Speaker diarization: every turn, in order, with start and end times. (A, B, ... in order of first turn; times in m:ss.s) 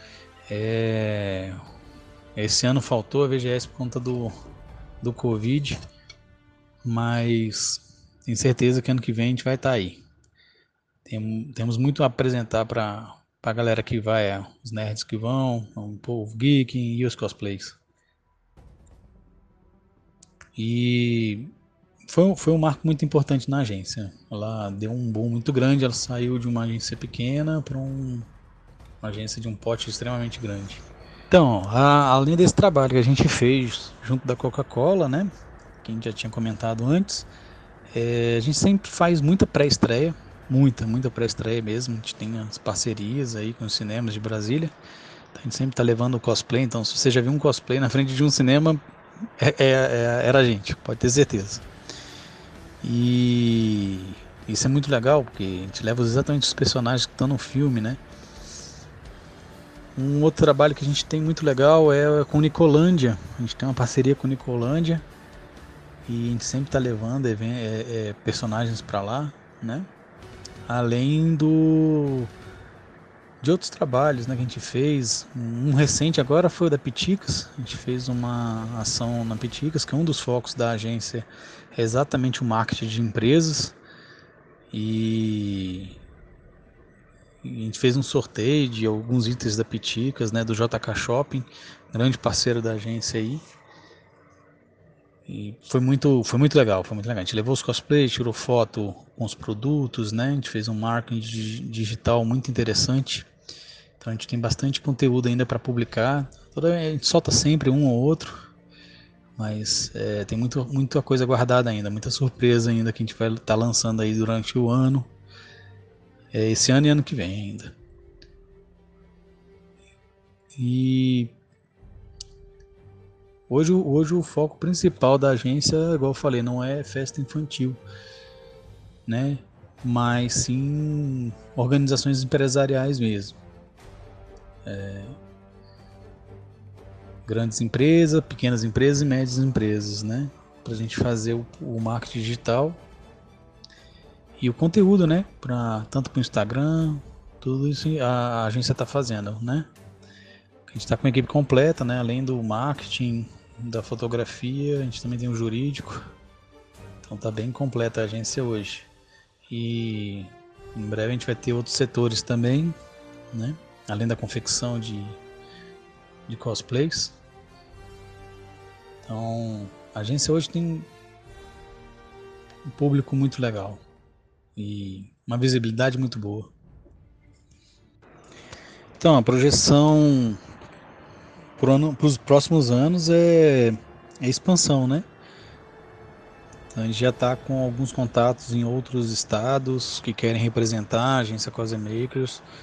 0:00.5-0:01.6 A
0:02.4-0:04.3 A
0:05.0-0:05.8 A
0:06.8-0:10.0 A
0:11.0-0:17.8 A
0:20.6-0:21.5 A
0:22.1-0:28.3 A
0:29.0-0:35.3 A
0:35.8-0:37.3 A
0:37.9-0:44.7 A
0:45.3-0:48.8 A
0:49.4-0:51.6 A
0:52.8-0:58.0 A
1:00.0-1:05.0 A
1:06.0-1:09.9 A
1:10.7-1:12.3 A
1:13.4-1:23.7 A
1:24.7-1:26.0 A
1:27.4-1:33.4 A
1:35.3-1:43.3 A
1:44.0-1:48.4 A
1:49.4-1:55.1 A
1:56.3-1:57.7 A
2:00.6-2:01.3 A
2:03.5-2:07.8 A
2:09.1-2:13.4 A
2:14.6-2:15.2 A
2:17.3-2:22.8 A
2:24.4-2:29.7 A
2:30.7-2:36.0 A
2:37.0-2:38.9 A
2:39.5-2:42.8 A
2:43.3-2:45.2 A
2:46.3-2:47.1 A
2:49.0-2:50.9 A
2:52.7-2:53.8 A
2:54.6-2:56.5 A
2:59.0-3:00.4 A
3:01.6-3:05.0 A
3:06.7-3:12.4 A